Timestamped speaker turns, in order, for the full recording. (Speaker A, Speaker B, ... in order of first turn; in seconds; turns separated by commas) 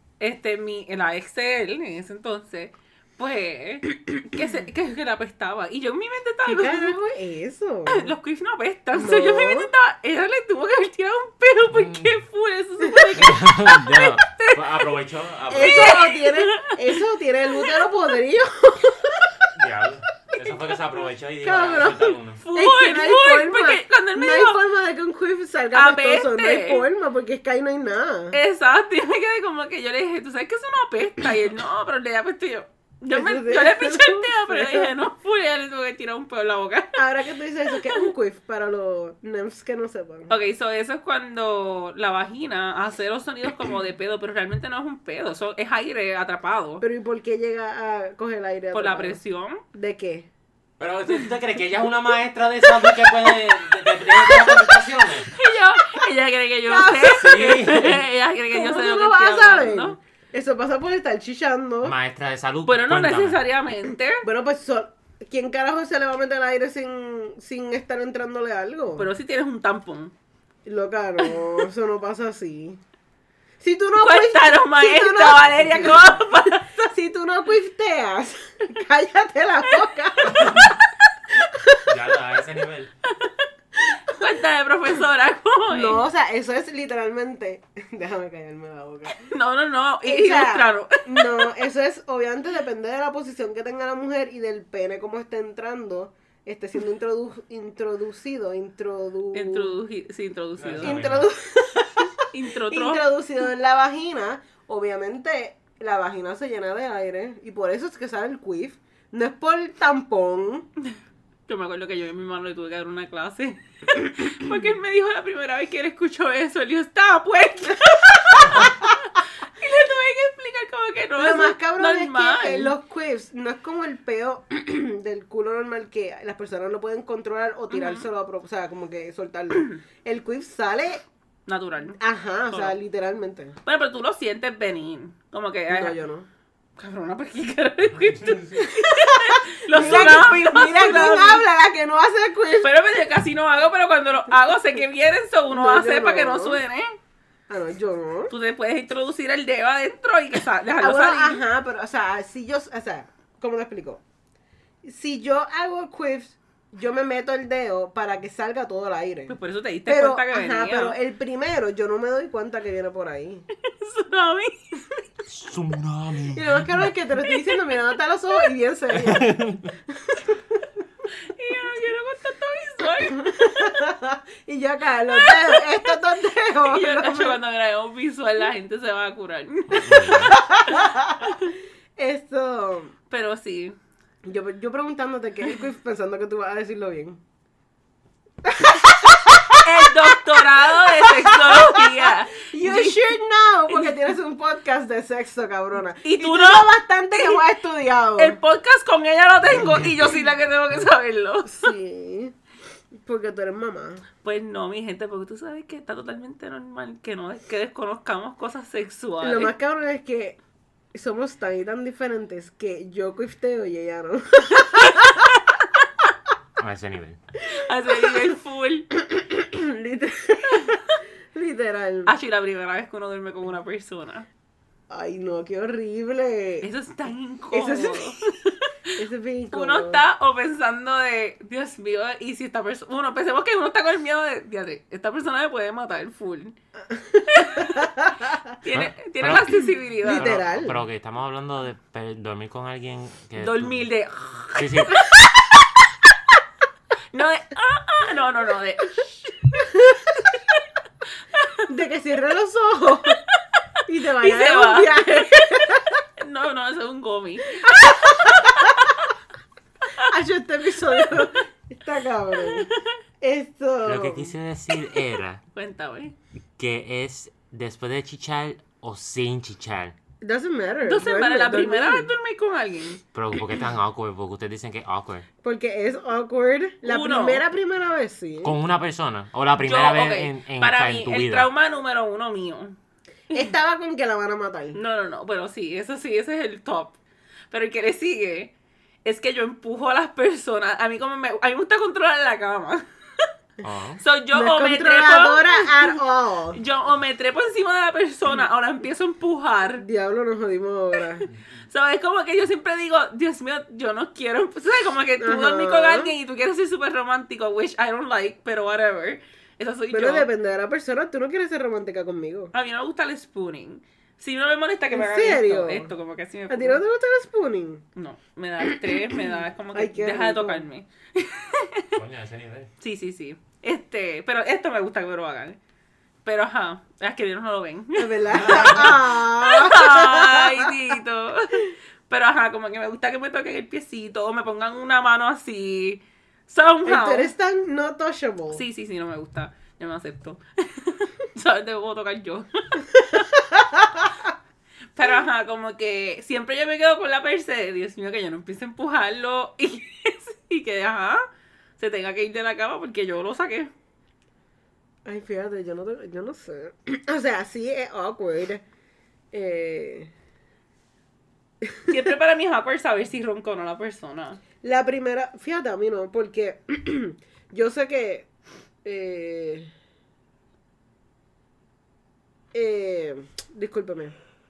Speaker A: 0.2-7.0, Speaker B: 6.5-8.1, Speaker A: 7.9-14.8, Speaker B: 8.9-9.7, Speaker C: 11.7-12.1, Speaker C: 13.2-16.1, Speaker B: 15.5-19.4, Speaker A: 15.6-16.9, Speaker C: 19.5-22.4, Speaker B: 21.4-28.4, Speaker A: 22.4-24.6, Speaker A: 25.7-26.9, Speaker A: 28.3-37.0, Speaker B: 33.1-34.9, Speaker B: 37.0-40.3, Speaker A: 37.7-38.1, Speaker A: 40.3-46.9, Speaker B: 46.8-49.2, Speaker A: 48.7-49.6, Speaker B: 49.7-50.3, Speaker C: 50.8-55.3, Speaker A: 55.2-60.0, Speaker B: 56.6-57.7, Speaker C: 56.9-58.0, Speaker B: 58.5-62.0, Speaker C: 61.8-63.4, Speaker A: 62.7-64.3, Speaker B: 64.2-69.1, Speaker A: 69.0-70.1, Speaker B: 70.7-72.8, Speaker B: 73.6-80.8, Speaker A: 74.0-76.7, Speaker C: 80.2-80.7, Speaker B: 81.3-81.9, Speaker C: 81.8-82.9, Speaker A: 83.1-83.5, Speaker A: 84.0-86.0, Speaker B: 85.7-89.3, Speaker A: 89.2-91.4, Speaker B: 90.0-99.8, Speaker A: 99.3-101.0, Speaker C: 100.6-101.3, Speaker B: 100.8-110.7, Speaker A: 102.3-103.1, Speaker A: 111.5-122.8, Speaker B: 121.2-131.0, Speaker A: 127.7-128.1, Speaker A: 131.5-132.0, Speaker B: 132.0-133.6, Speaker A: 133.7-136.0, Speaker B: 135.7-136.3, Speaker A: 136.8-141.4, Speaker B: 138.6-142.7, Speaker C: 139.8-140.2, Speaker A: 142.6-147.0, Speaker B: 145.5-146.6, Speaker B: 147.5-148.3, Speaker A: 148.3-151.4, Speaker B: 150.8-154.0, Speaker B: 154.8-159.3, Speaker A: 159.3-161.0, Speaker B: 159.9-163.5, Speaker A: 163.6-165.0, Speaker C: 165.3-166.9, Speaker B: 166.3-170.6, Speaker A: 167.3-167.7, Speaker C: 168.9-169.7, Speaker A: 171.3-173.3, Speaker B: 173.1-177.4, Speaker A: 175.1-175.9, Speaker A: 176.6-181.5, Speaker C: 179.7-180.4, Speaker B: 180.3-182.9, Speaker A: 183.1-183.8, Speaker B: 184.2-187.2, Speaker B: 188.4-198.4, Speaker A: 189.6-193.1, Speaker A: 193.7-194.1, Speaker A: 196.0-197.4, Speaker A: 198.2-201.7, Speaker B: 201.5-202.3, Speaker B: 203.0-204.1, Speaker A: 204.2-209.5, Speaker B: 209.2-210.4, Speaker B: 210.9-215.3, Speaker A: 214.8-215.4, Speaker C: 216.6-217.2, Speaker A: 217.4-218.9, Speaker B: 218.9-220.8, Speaker B: 221.3-222.1, Speaker A: 222.1-224.3, Speaker B: 224.9-226.7, Speaker A: 226.6-228.9, Speaker B: 227.5-228.2, Speaker B: 229.0-230.0, Speaker A: 229.5-236.6, Speaker B: 236.9-238.4, Speaker A: 237.3-237.9, Speaker A: 238.6-240.4, Speaker C: 238.7-243.9, Speaker B: 240.0-240.8, Speaker A: 243.4-245.2, Speaker C: 244.6-245.1, Speaker A: 247.1-250.6, Speaker B: 249.7-250.0, Speaker A: 251.3-251.7, Speaker B: 251.7-253.2, Speaker B: 253.9-256.0, Speaker A: 254.2-259.1, Speaker B: 257.6-258.9, Speaker B: 260.0-264.4, Speaker A: 261.0-261.3, Speaker A: 262.4-263.0, Speaker C: 263.8-265.4, Speaker A: 265.5-266.1, Speaker C: 266.6-270.0, Speaker B: 270.2-272.1, Speaker A: 270.9-273.0, Speaker C: 273.1-275.3, Speaker B: 275.4-278.6, Speaker A: 276.8-277.4, Speaker C: 278.4-281.5, Speaker A: 279.6-282.8, Speaker B: 283.3-284.8, Speaker A: 284.7-287.0, Speaker A: 287.5-288.5, Speaker A: 289.1-293.3, Speaker C: 293.6-294.0, Speaker A: 294.0-296.0, Speaker B: 294.3-296.6, Speaker A: 296.5-299.8, Speaker B: 299.8-301.3, Speaker A: 301.7-310.3, Speaker B: 305.2-306.1, Speaker B: 309.9-312.5, Speaker A: 312.5-316.8, Speaker B: 314.9-315.9, Speaker B: 316.5-317.8, Speaker A: 318.0-321.9, Speaker B: 318.9-320.7, Speaker C: 322.0-322.7, Speaker A: 322.8-325.6, Speaker A: 326.2-337.3, Speaker B: 328.0-330.7, Speaker C: 328.3-329.0, Speaker B: 336.9-338.6, Speaker A: 338.5-343.4, Speaker B: 343.5-344.1, Speaker A: 344.9-351.2, Speaker A: 351.8-353.7, Speaker B: 355.1-358.6, Speaker B: 359.3-360.1, Speaker B: 361.6-362.0, Speaker A: 361.9-364.4, Speaker B: 364.6-368.3, Speaker B: 368.8-369.7, Speaker B: 372.5-374.2